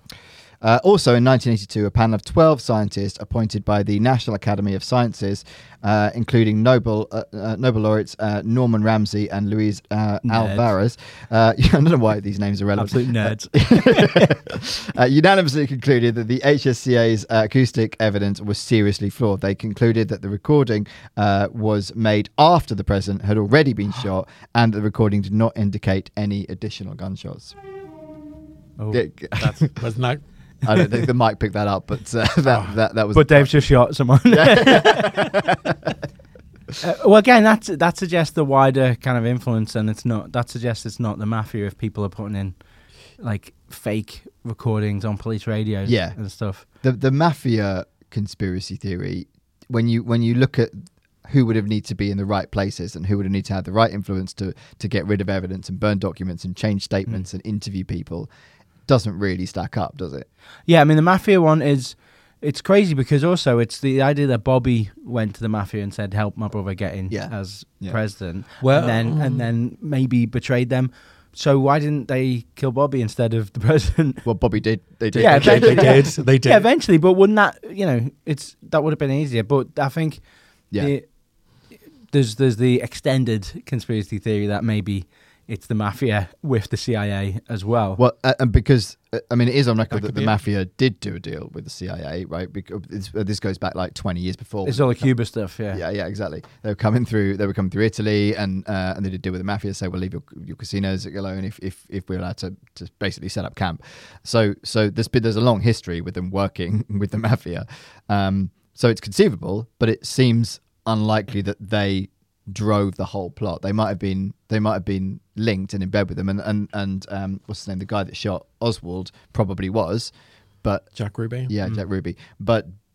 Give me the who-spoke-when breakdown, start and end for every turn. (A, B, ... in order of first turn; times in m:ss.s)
0:00.6-0:27.6 A
0:10.2-0:10.7 B
0:12.8-0:14.4 B
0:28.8-0:29.7 B
0:28.9-0:29.8 A
0:29.8-0:30.6 C
0:30.6-0:33.6 A
0:32.5-0:32.8 C
0:33.1-0:35.5 B
0:34.3-0:35.9 A
0:36.8-0:42.6 B
0:43.2-0:46.6 B
0:45.8-0:58.3 A
0:58.9-1:00.3 A
1:00.7-1:14.3 B
1:07.1-1:08.0 A
1:08.6-1:09.5 C
1:14.2-1:16.1 A
1:15.1-1:20.2 B
1:15.2-1:16.7 C
1:20.8-1:21.1 B
1:21.7-1:28.0 B
1:28.0-1:35.1 A
1:29.9-1:30.4 C
1:34.6-1:35.8 B
1:35.7-2:00.1 A
2:00.6-2:00.9 A
2:01.0-2:01.5 C
2:01.5-2:02.7 A